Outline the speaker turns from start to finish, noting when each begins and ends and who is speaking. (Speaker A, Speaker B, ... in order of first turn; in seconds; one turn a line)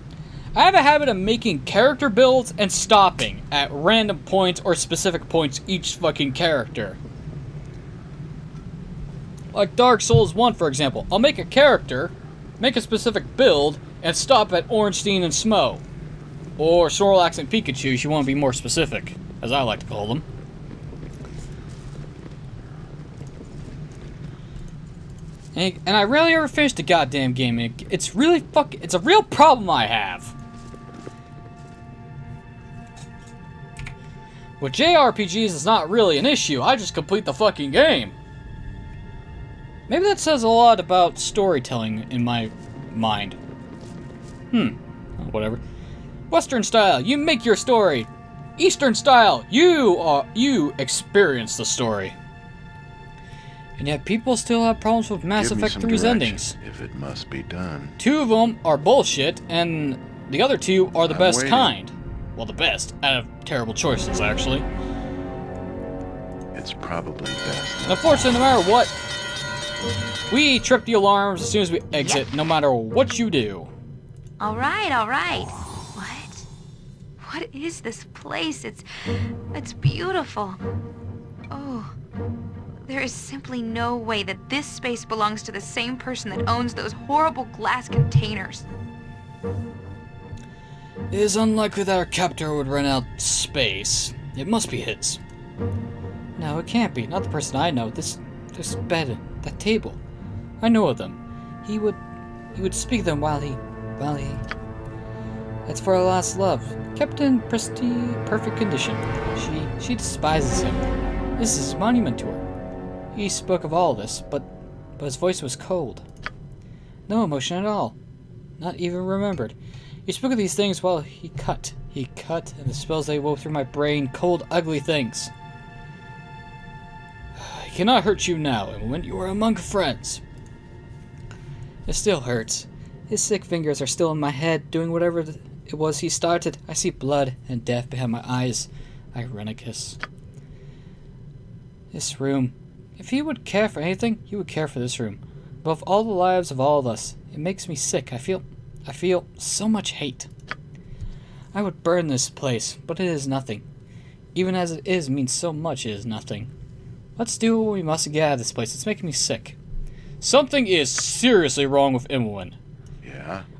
Speaker A: 0.6-7.0
Speaker A: 9.5-15.8
Speaker A: 16.6-20.3
Speaker A: 25.5-30.3
Speaker A: 34.6-38.1
Speaker A: 39.9-43.4
Speaker A: 44.5-45.6
Speaker A: 46.3-52.2
Speaker A: 53.8-56.6
Speaker B: 55.3-58.0
Speaker A: 58.0-64.7
Speaker B: 61.1-61.7
Speaker B: 66.5-68.0
Speaker A: 67.8-69.0
Speaker A: 70.3-73.7
Speaker C: 74.4-76.5
Speaker C: 77.2-80.6
Speaker C: 81.5-81.9
Speaker C: 82.8-88.7
Speaker A: 91.1-95.2
Speaker A: 96.4-100.0
Speaker A: 100.6-102.0
Speaker A: 102.5-104.4
Speaker A: 105.7-110.9
Speaker A: 111.4-112.4
Speaker A: 113.2-116.0
Speaker A: 117.1-118.0
Speaker A: 118.6-119.5
Speaker A: 120.1-125.3
Speaker A: 127.4-130.2
Speaker A: 131.9-140.0
Speaker A: 141.9-150.3
Speaker A: 151.5-153.7
Speaker A: 154.3-156.5
Speaker A: 157.2-159.6
Speaker A: 160.2-162.6
Speaker B: 163.0-163.5